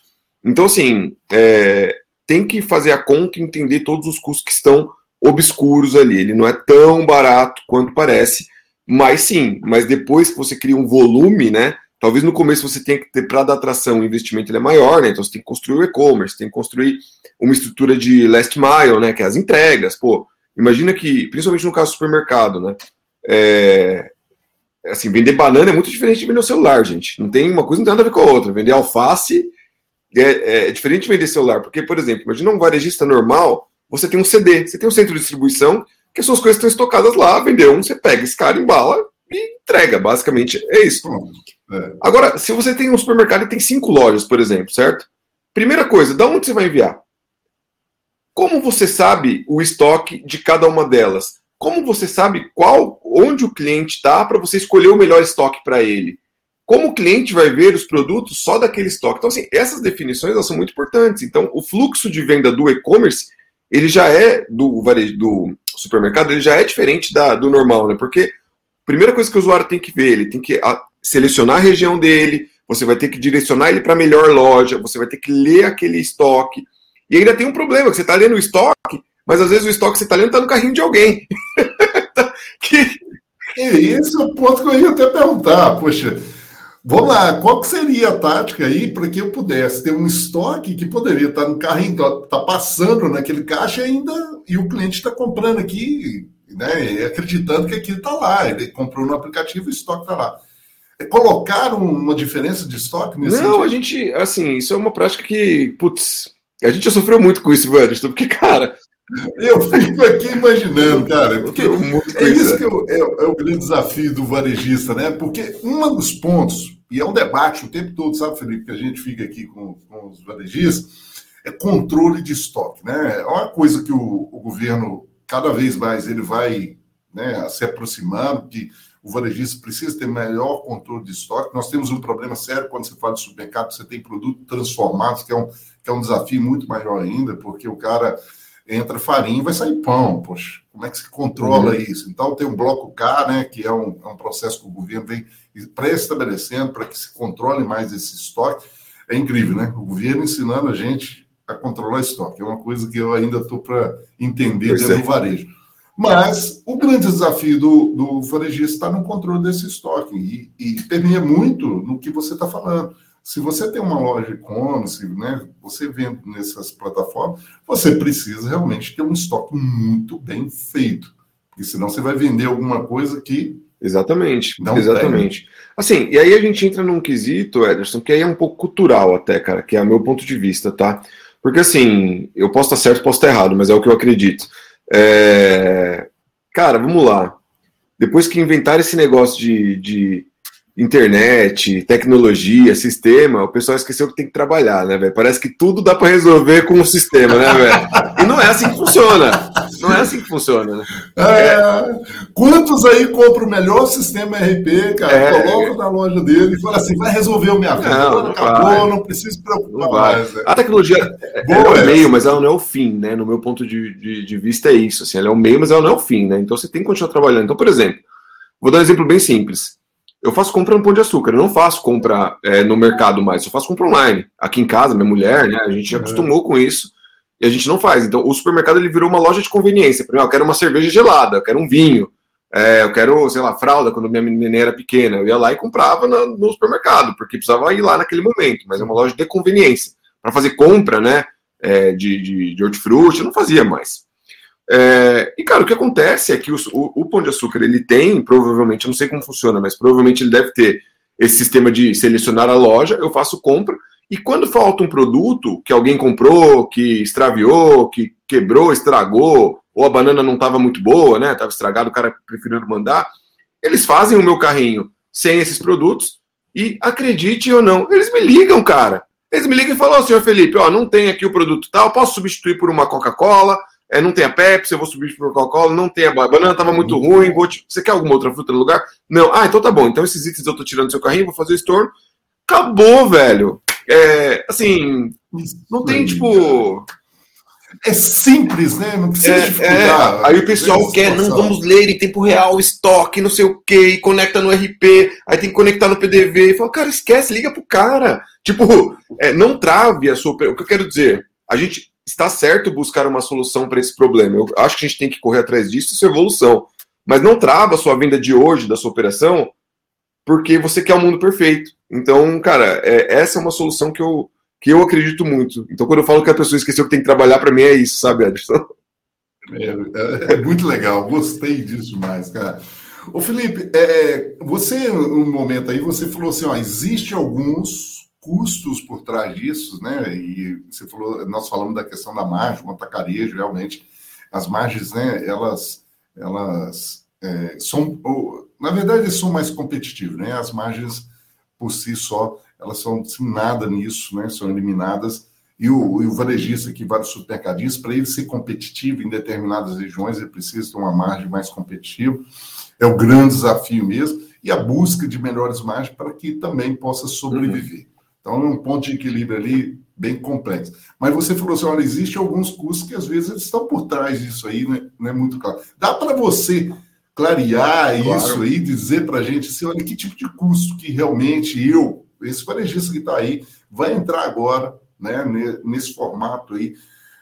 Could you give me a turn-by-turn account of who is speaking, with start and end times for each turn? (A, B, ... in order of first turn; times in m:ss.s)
0:00.4-0:24.1 A
0:24.9-0:29.5 A
0:30.1-0:41.1 A
0:41.0-0:42.0 B
0:42.0-0:47.0 A
0:48.4-1:08.3 A
1:08.9-1:23.0 A
1:23.6-1:26.2 B
1:26.8-1:40.4 B
1:41.0-1:43.8 B
1:43.2-1:48.8 A
1:49.2-2:53.6 B
1:50.8-1:52.6 A
2:21.4-2:21.8 A
2:34.7-2:35.0 A
2:53.8-3:07.4 A
2:54.6-2:55.3 B
3:08.0-3:21.6 A
3:17.4-3:18.2 B
3:19.7-3:20.0 B
3:21.2-3:32.2 B
3:25.1-3:25.7 A
3:27.8-3:28.9 A
3:29.7-3:38.0 A
3:38.6-4:04.0 A
3:45.9-3:46.3 B
4:04.7-4:23.1 A
4:23.6-4:41.9 A
4:36.7-4:37.4 B
4:42.5-4:45.2 A
4:45.3-4:46.7 B
4:45.7-4:46.9 A
4:47.8-4:51.6 B
4:49.2-5:09.5 A
5:10.3-5:18.6 A
5:19.5-5:52.2 B
5:52.8-6:16.8 B
5:57.3-5:57.6 A
6:08.0-6:08.4 A